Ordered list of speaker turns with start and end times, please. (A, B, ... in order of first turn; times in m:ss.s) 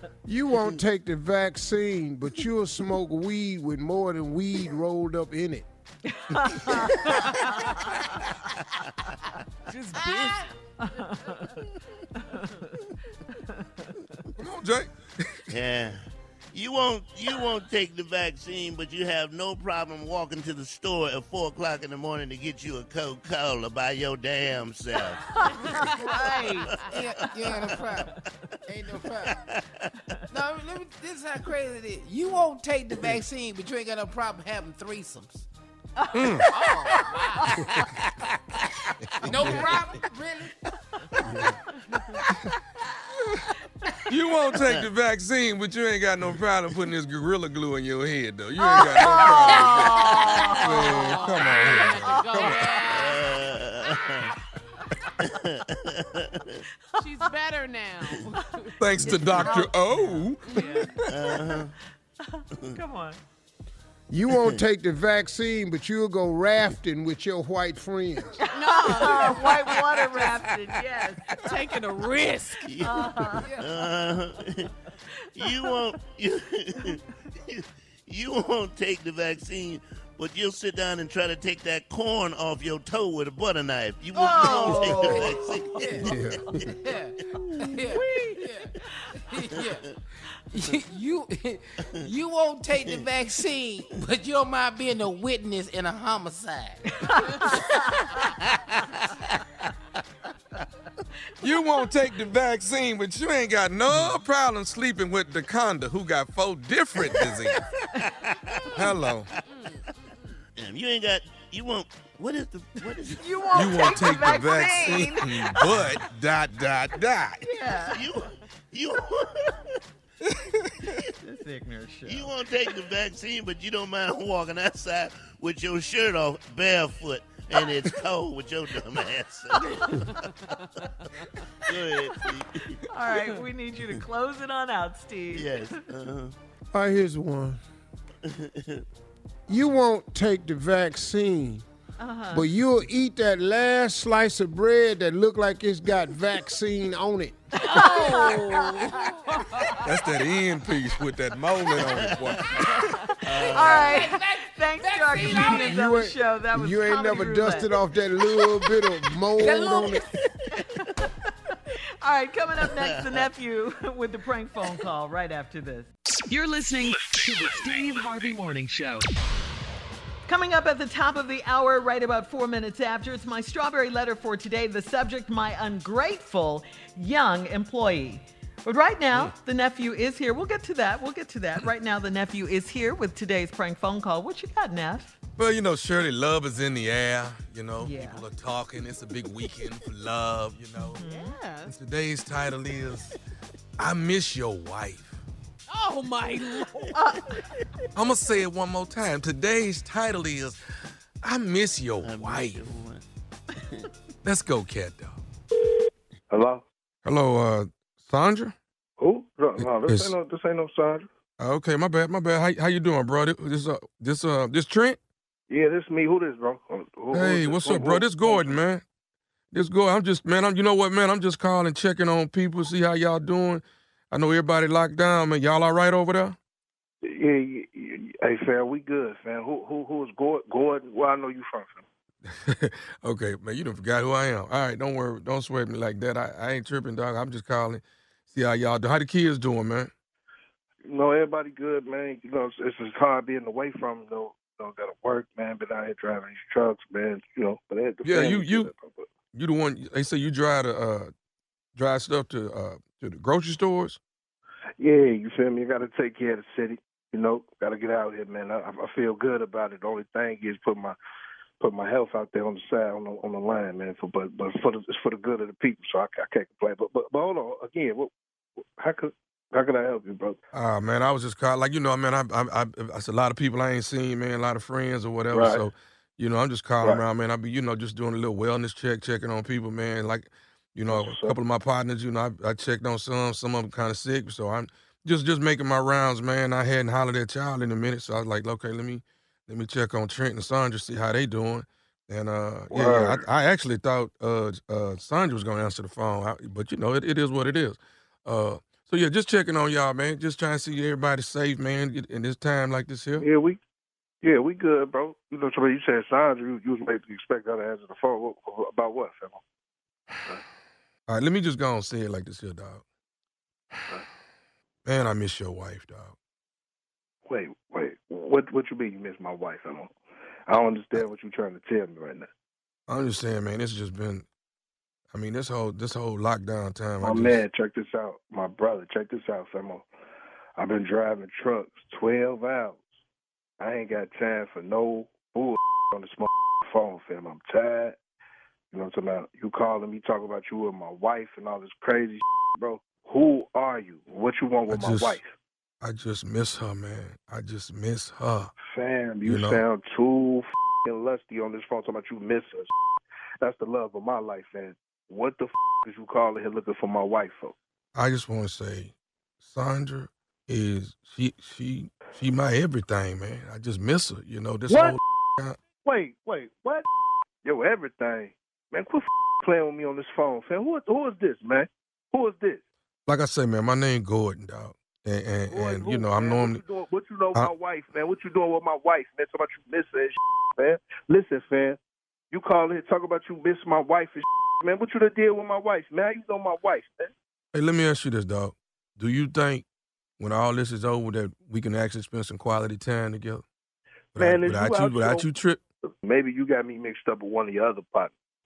0:00.2-0:05.6 A
0:06.1-0:08.2 B
0:09.7-0:10.5 C
0:10.8-0:11.6 B
0:12.2-0:14.2 B
0:14.4-0:15.5 D
0:15.5-0:27.5 E
0:25.1-0:28.2 B
0:25.7-0:26.7 C
0:26.8-0:28.1 F
0:28.7-0:29.4 F
0:29.3-0:29.9 E
0:30.3-0:35.5 F
0:36.0-0:37.7 B
0:36.1-0:36.5 D
0:36.4-0:38.2 F
0:39.2-0:40.6 F
0:39.2-0:39.6 D
0:41.2-0:41.5 F
0:41.3-0:41.6 A
0:44.1-0:52.6 D
0:48.6-0:53.0 B
0:49.3-0:53.3 C
0:52.9-0:54.3 E
0:55.2-0:56.6 E
0:57.0-1:01.0 C
0:58.8-1:00.5 D
0:59.2-0:59.7 B
1:00.5-1:00.9 B
1:01.1-1:01.7 E
1:02.3-1:03.2 B
1:04.1-1:08.4 A
1:08.4-1:11.5 B
1:08.5-1:09.8 C
1:11.4-1:12.7 C
1:12.6-1:14.7 E
1:12.8-1:13.5 B
1:13.2-1:13.9 F
1:15.3-1:26.4 E
1:15.4-1:15.8 B
1:24.2-1:26.1 B
1:24.2-1:26.1 F
1:26.0-1:26.7 A
1:26.6-1:30.0 F
1:27.6-1:28.4 B
1:30.5-1:38.3 F
1:36.9-1:38.2 B
1:41.4-1:47.6 D
1:47.0-1:47.3 E
1:48.2-1:48.6 E
1:48.7-1:49.3 D
1:50.6-1:54.1 E
1:52.8-1:55.8 B
1:53.5-1:57.4 D
1:57.4-1:58.1 B
1:57.8-1:59.8 E
2:00.3-2:00.7 D
2:01.2-2:02.3 B
2:02.0-2:10.1 E
2:10.2-2:11.3 C
2:11.6-2:13.2 E
2:12.9-2:15.8 B
2:15.3-2:16.3 E
2:16.7-2:17.6 A
2:18.3-2:18.8 E
2:19.5-2:21.6 A
2:22.0-2:22.5 B
2:22.3-2:27.4 A
2:27.6-2:29.8 B
2:27.6-2:28.7 C
2:27.7-2:29.7 F
2:29.8-2:33.0 D
2:31.8-2:32.6 E
2:32.7-2:35.7 F
2:33.2-2:37.8 B
2:33.2-2:34.1 E
2:35.6-2:40.1 A
2:39.4-2:40.3 F
2:42.0-2:45.9 B
2:42.7-2:43.2 E
2:46.3-2:49.0 G
2:50.3-3:05.2 B
3:05.4-3:11.0 D
3:07.8-3:08.2 B
3:10.8-3:11.4 B
3:11.0-3:11.7 C
3:11.7-3:13.1 D
3:13.8-3:15.2 D
3:15.7-3:17.0 C
3:17.0-3:17.4 B
3:17.9-3:20.6 D
3:21.2-3:22.7 D
3:22.0-3:23.0 E
3:23.6-3:23.9 E
3:24.2-3:25.2 D
3:26.3-3:26.6 H
3:27.0-3:28.5 D
3:29.0-3:31.1 H
3:29.6-3:30.2 D
3:31.4-3:35.0 D
3:35.5-3:38.6 H
3:37.1-3:38.8 D
3:39.5-3:46.4 D
3:47.0-3:51.8 H
3:52.2-3:59.9 D
4:00.8-4:09.0 H
4:08.0-4:08.7 D
4:09.3-4:11.1 D
4:11.7-4:14.0 D
4:14.8-4:21.0 H
4:21.6-4:28.1 H
4:28.8-4:30.4 H
4:30.5-5:03.2 D
4:35.3-4:35.6 H
4:40.9-4:41.4 H
4:52.7-4:53.2 H
5:03.2-5:03.6 H
5:04.2-5:09.4 H
5:11.1-5:12.8 D
5:14.8-5:16.1 D
5:17.3-5:19.9 H
5:20.5-5:22.3 H
5:22.9-5:24.2 D
5:25.1-5:27.4 D
5:27.0-5:29.8 H
5:30.6-5:32.8 H
5:33.6-5:38.0 H
5:38.7-5:45.3 H
5:44.7-5:45.2 D
5:45.8-5:48.5 D
5:48.7-5:52.7 H
5:49.2-5:49.6 D
5:53.4-5:57.5 H
5:57.9-5:58.9 D
5:59.4-6:05.6 D
6:04.7-6:05.0 H
6:05.8-6:06.8 H
6:07.4-6:12.6 H
6:13.1-6:16.6 D
6:15.5-6:21.8 H
6:22.3-6:27.1 H
6:27.5-6:29.6 D
6:30.2-6:33.4 D
6:34.1-6:35.3 H
6:34.1-6:35.6 D
6:36.0-6:38.1 H